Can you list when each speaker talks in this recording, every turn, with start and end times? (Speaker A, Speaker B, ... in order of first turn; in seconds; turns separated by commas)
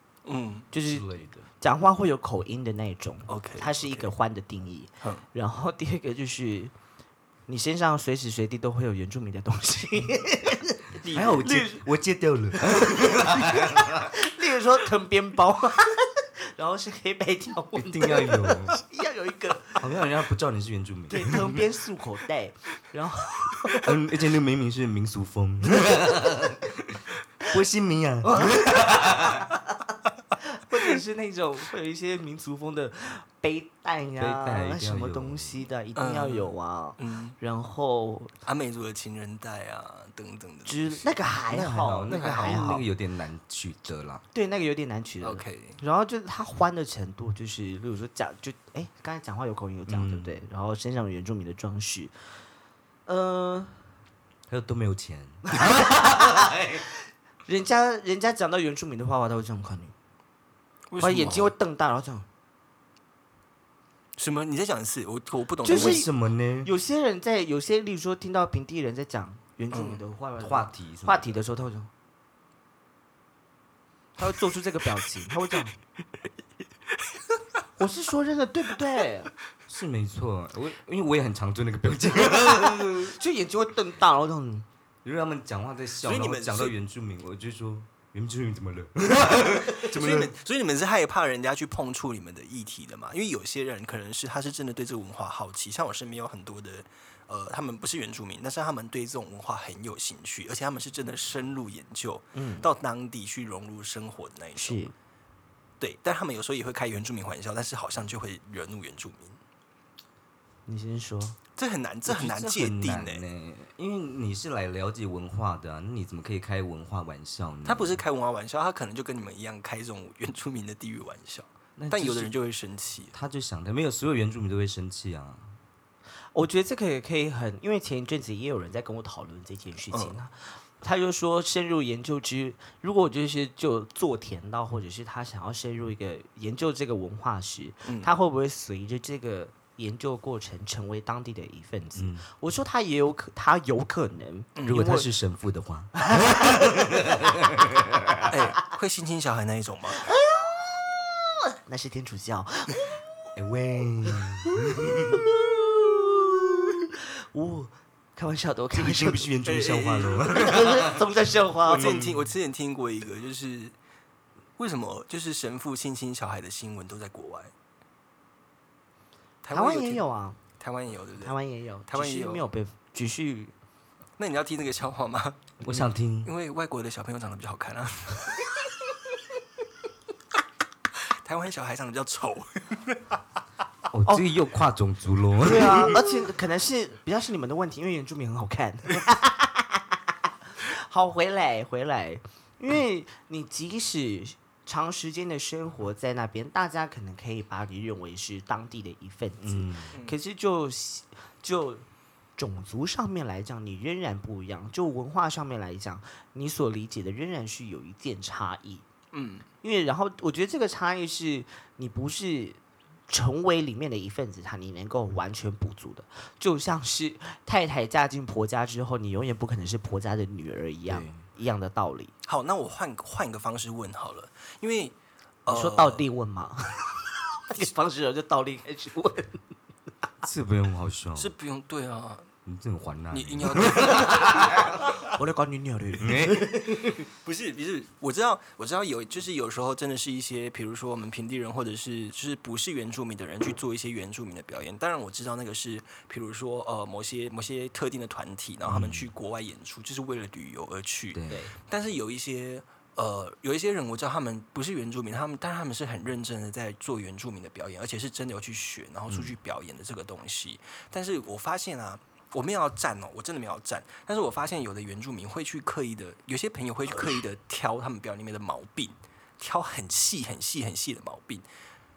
Speaker A: 0.2-0.7, Speaker B: 0.7-1.1, Speaker C: 0.9-1.4, Speaker B: 1.6-6.7, Speaker A: 3.3-4.1, Speaker B: 7.5-11.8, Speaker A: 11.0-11.4, Speaker C: 11.1-14.1, Speaker B: 12.8-19.8, Speaker C: 17.8-18.8, Speaker C: 19.8-21.6, Speaker B: 21.1-23.9, Speaker C: 23.8-29.5, Speaker B: 28.2-29.4, Speaker B: 30.4-38.3, Speaker C: 34.2-35.6, Speaker A: 36.0-37.3, Speaker A: 38.4-41.1, Speaker B: 40.6-42.8, Speaker C: 41.5-44.2, Speaker A: 42.1-42.8, Speaker B: 44.3-52.1, Speaker A: 45.2-45.8, Speaker C: 49.9-50.3, Speaker B: 53.1-53.8, Speaker C: 54.5-56.8, Speaker B: 55.5-56.3, Speaker B: 57.5-59.9, Speaker A: 60.9-61.5, Speaker B: 61.0-62.2, Speaker A: 64.2-66.0, Speaker B: 65.6-66.1, Speaker C: 65.6-66.7, Speaker B: 66.6-71.9, Speaker A: 69.7-70.0, Speaker C: 70.4-71.4, Speaker B: 74.2-75.7, Speaker B: 77.8-79.3, Speaker C: 79.7-83.2, Speaker B: 82.3-84.7, Speaker C: 85.0-90.3, Speaker A: 86.0-86.7, Speaker A: 89.8-104.8, Speaker B: 102.3-102.7, Speaker B: 104.5-104.9, Speaker A: 105.8-109.4, Speaker B: 110.7-111.4, Speaker A: 111.6-113.2, Speaker C: 112.0-118.0, Speaker A: 117.6-123.1, Speaker C: 121.8-122.3, Speaker C: 123.1-125.5, Speaker B: 126.3-145.1, Speaker A: 129.9-130.2, Speaker C: 141.9-142.2, Speaker A: 144.6-144.8, Speaker C: 144.7-148.3, Speaker B: 146.0-147.1, Speaker A: 148.3-150.1, Speaker B: 150.0-153.0, Speaker C: 153.3-155.2, Speaker B: 154.4-159.3, Speaker C: 158.7-161.0, Speaker A: 159.4-160.6, Speaker B: 160.3-162.0, Speaker A: 161.7-163.7, Speaker C: 161.7-162.3, Speaker A: 164.6-167.5, Speaker A: 169.4-170.0, Speaker B: 169.5-170.4, Speaker A: 170.6-171.3, Speaker B: 171.2-173.5, Speaker A: 171.9-172.5, Speaker A: 174.2-178.6, Speaker C: 175.6-176.3, Speaker A: 181.1-183.2, Speaker C: 183.9-186.0, Speaker B: 185.4-190.0, Speaker B: 190.6-201.8, Speaker C: 199.4-199.9, Speaker B: 202.4-208.8, Speaker A: 209.1-209.4, Speaker B: 209.6-222.1, Speaker C: 220.9-221.2, Speaker A: 222.2-224.9, Speaker A: 225.4-226.1, Speaker B: 225.5-229.4, Speaker C: 230.2-231.3, Speaker A: 231.2-232.3, Speaker C: 232.4-234.8, Speaker A: 233.1-235.0, Speaker B: 234.8-237.1, Speaker C: 236.0-236.5, Speaker A: 237.2-271.4, Speaker C: 248.7-249.1, Speaker C: 251.1-251.5, Speaker C: 259.1-259.4